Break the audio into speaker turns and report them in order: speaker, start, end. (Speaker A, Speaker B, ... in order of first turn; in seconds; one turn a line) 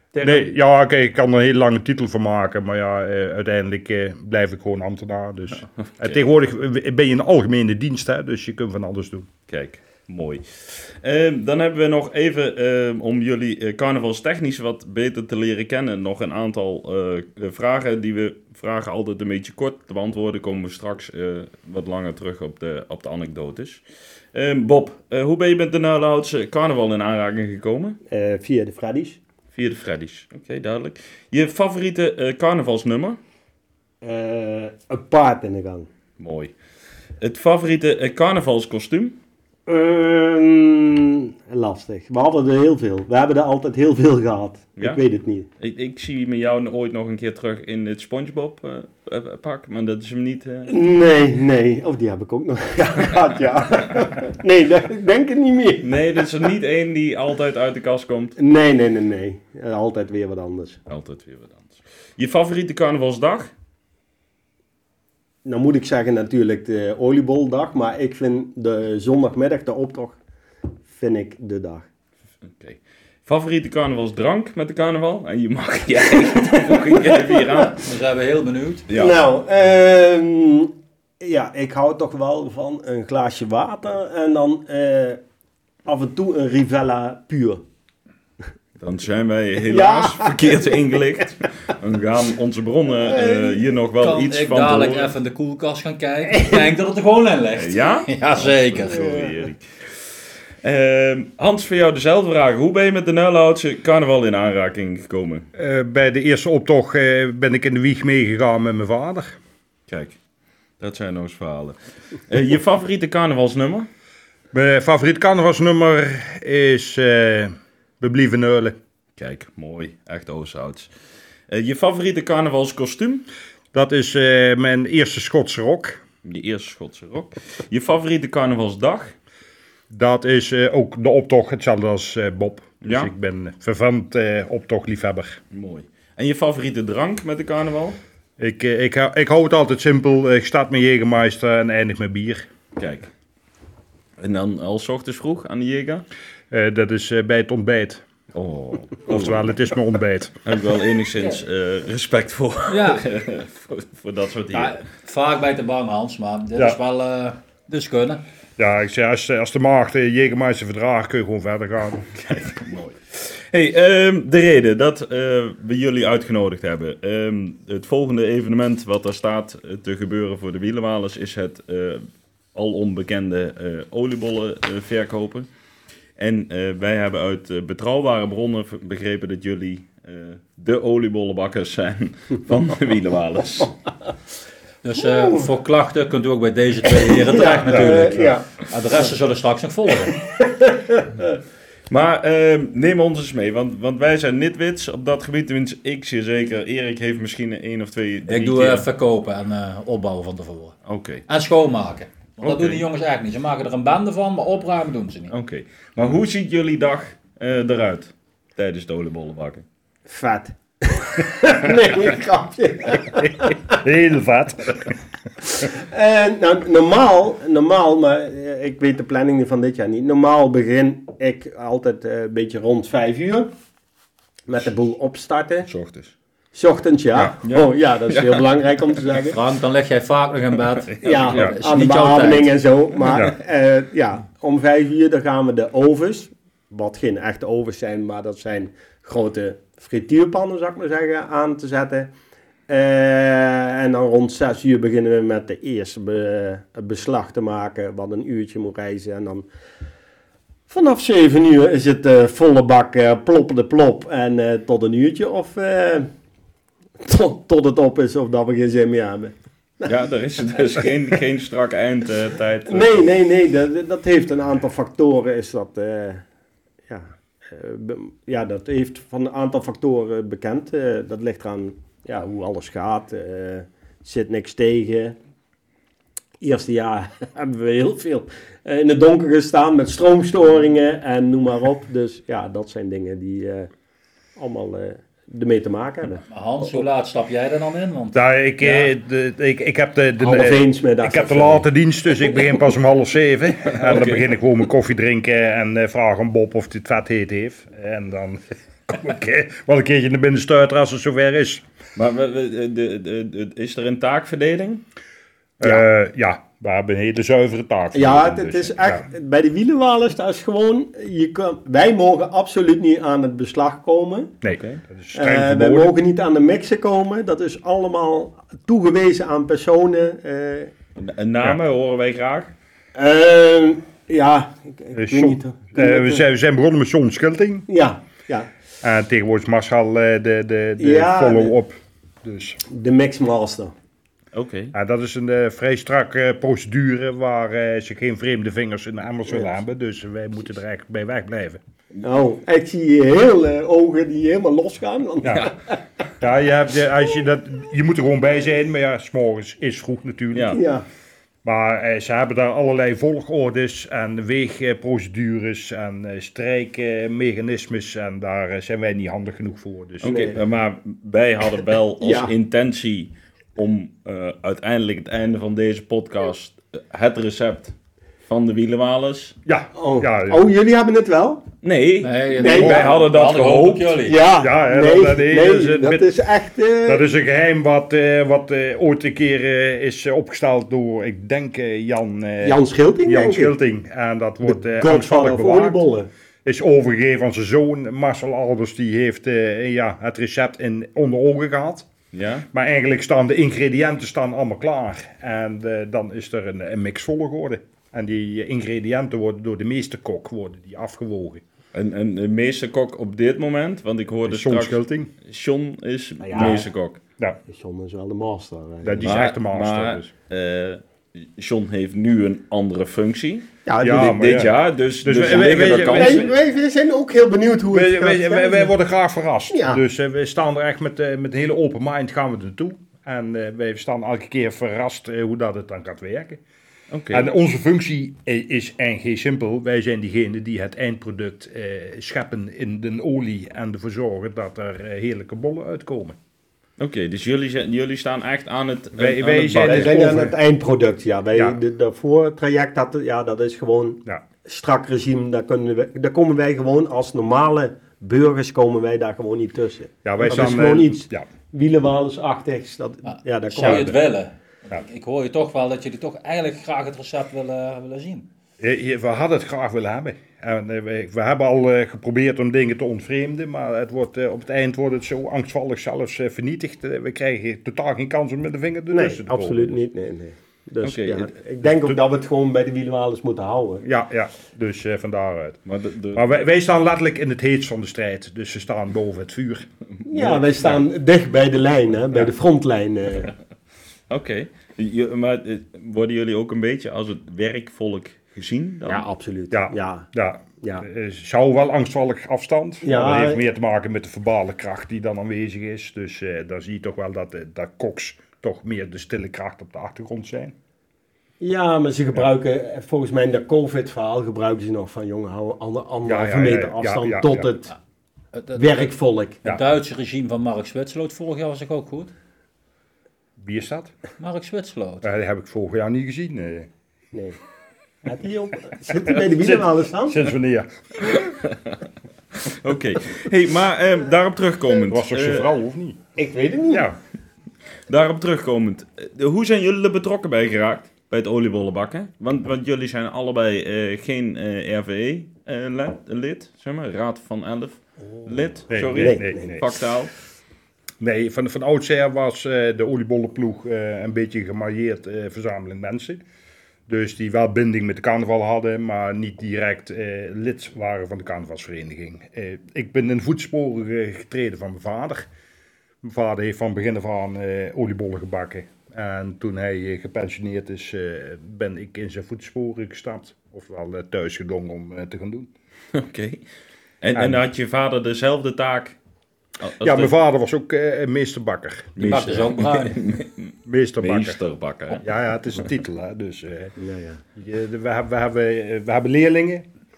Speaker A: 0.2-9.3
Speaker B: 5.8-6.2
Speaker B: 9.5-28.0
Speaker C: 28.1-29.2
Speaker B: 29.5-33.2
Speaker C: 34.0-35.9
Speaker B: 36.2-36.5
Speaker B: 37.2-39.2
Speaker C: 39.7-45.5
Speaker B: 45.6-50.7
Speaker C: 50.7-56.0
Speaker B: 55.8-58.4
Speaker C: 58.4-60.8
Speaker B: 60.9-63.5
Speaker C: 65.4-70.2
Speaker C: 70.9-71.8
Speaker B: 72.4-77.8
Speaker D: 77.7-78.8
Speaker B: 78.9-79.1
Speaker C: 78.9-85.2
Speaker C: 85.8-87.6
Speaker B: 88.8-95.1
Speaker C: 89.7-90.7
Speaker C: 93.0-93.6
Speaker D: 94.0-99.1
Speaker B: 97.5-99.9
Speaker C: 98.8-99.4
Speaker B: 100.6-105.5
Speaker A: 105.5-109.4
Speaker B: 109.9-110.2
Speaker B: 110.8-113.9
Speaker A: 114.5-118.8
Speaker B: 119.2-120.9
Speaker B: 121.5-123.3
Speaker A: 123.7-126.0
Speaker B: 126.2-129.1
Speaker A: 129.9-135.4
Speaker B: 132.8-133.1
Speaker B: 135.5-138.0
Speaker A: 138.4-142.4
Speaker B: 142.8-143.1
Speaker B: 144.2-146.0
Speaker A: 146.5-148.0
Speaker B: 148.3-149.5
Speaker A: 149.1-150.4
Speaker B: 150.4-154.8
Speaker D: 152.7-153.0
Speaker D: 154.5-158.2
Speaker A: 158.6-162.4
Speaker B: 162.3-175.5
Speaker B: 176.2-183.8
Speaker D: 184.8-190.2
Speaker C: 185.2-185.5
Speaker C: 187.1-188.5
Speaker A: 187.8-188.3
Speaker C: 190.1-191.1
Speaker B: 191.9-198.8
Speaker D: 198.3-200.8
Speaker B: 200.9-201.2
Speaker D: 201.3-205.3
Speaker B: 202.4-202.8
Speaker B: 205.3-209.6
Speaker C: 210.1-213.6
Speaker A: 213.7-214.9
Speaker C: 215.6-223.5
Speaker C: 224.5-225.7
Speaker B: 225.6-226.1
Speaker C: 226.5-229.4
Speaker B: 227.5-228.4
Speaker D: 229.3-232.5
Speaker B: 230.9-231.5
Speaker C: 231.0-242.1
Speaker C: 242.7-249.4
Speaker C: 250.7-256.1
Speaker C: 257.0-259.3
Speaker B: 259.8-263.1
Speaker C: 262.7-266.2
Speaker C: 266.9-275.1
Speaker C: 276.4-283.7
Speaker C: 284.4-286.2
Speaker D: 286.3-288.9
Speaker A: 288.1-301.6
Speaker C: 290.2-291.6
Speaker B: 293.7-294.3
Speaker B: 301.9-304.8
Speaker A: 305.6-309.1
Speaker C: 307.9-314.4
Speaker A: 314.4-315.9
Speaker B: 314.5-314.8
Speaker C: 315.1-320.7
Speaker B: 321.0-322.5
Speaker C: 322.9-326.2
Speaker A: 324.9-327.7
Speaker C: 327.7-328.5
Speaker A: 328.8-332.6
Speaker C: 330.8-331.5
Speaker C: 332.7-333.7
Speaker B: 334.3-334.7
Speaker A: 334.7-341.6
Speaker C: 342.0-345.5
Speaker B: 345.2-345.5
Speaker A: 346.2-350.6
Speaker B: 350.3-350.6
Speaker C: 350.5-350.8
Speaker A: 351.4-360.3
Speaker B: 360.0-367.7
Speaker C: 360.1-360.3
Speaker C: 362.0-362.3
Speaker B: 368.2-369.4
Speaker A: 369.4-370.5
Speaker C: 369.7-371.4
Speaker B: 371.6-374.0
Speaker D: 372.0-374.2
Speaker C: 372.4-372.9
Speaker A: 372.6-372.9
Speaker C: 374.0-377.0
Speaker A: 374.4-376.1
Speaker A: 376.8-385.8
Speaker C: 382.4-383.5
Speaker C: 384.4-386.1
Speaker A: 386.4-391.9
Speaker B: 392.1-392.5
Speaker A: 392.5-401.4
Speaker B: 401.7-407.0
Speaker A: 404.2-405.1
Speaker C: 406.2-406.7
Speaker C: 407.5-409.1
Speaker A: 408.8-410.1
Speaker B: 409.0-416.3
Speaker C: 413.6-414.5
Speaker A: 413.8-416.3
Speaker C: 415.2-418.7
Speaker A: 417.7-426.4
Speaker C: 419.5-419.8
Speaker B: 426.9-427.3
Speaker A: 427.1-436.1
Speaker B: 436.8-440.2
Speaker A: 438.9-440.4
Speaker C: 439.6-453.9
Speaker A: 450.0-451.3
Speaker D: 453.1-458.3
Speaker A: 453.6-453.9
Speaker A: 458.6-469.8
Speaker C: 468.9-473.8
Speaker B: 470.8-471.3
Speaker A: 471.6-471.9
Speaker A: 473.8-480.8
Speaker B: 475.6-476.2
Speaker C: 480.1-483.3
Speaker B: 484.1-489.0
Speaker C: 488.9-490.1
Speaker A: 489.5-500.5
Speaker C: 492.8-493.4
Speaker C: 501.4-507.7
Speaker A: 506.0-507.5
Speaker D: 508.3-508.9
Speaker C: 508.5-509.4
Speaker D: 509.4-512.1
Speaker A: 513.4-513.9
Speaker D: 514.2-515.1
Speaker A: 515.0-516.7
Speaker C: 517.1-517.4
Speaker C: 518.0-520.3
Speaker A: 519.2-521.3
Speaker B: 521.4-521.7
Speaker B: 522.4-525.5
Speaker A: 524.9-526.1
Speaker C: 526.2-526.9
Speaker A: 526.7-527.0
Speaker B: 527.9-540.1
Speaker A: 538.7-539.6
Speaker C: 538.9-539.5
Speaker A: 541.0-546.2
Speaker A: 546.9-555.3
Speaker A: 556.0-565.5
Speaker B: 565.9-566.4
Speaker B: 567.0-569.0
Speaker A: 567.1-567.4
Speaker B: 569.6-570.1
Speaker A: 569.8-572.2
Speaker B: 572.0-575.0
Speaker D: 572.0-573.0
Speaker A: 573.6-574.4
Speaker A: 575.0-576.8
Speaker C: 576.8-577.2
Speaker A: 577.3-579.6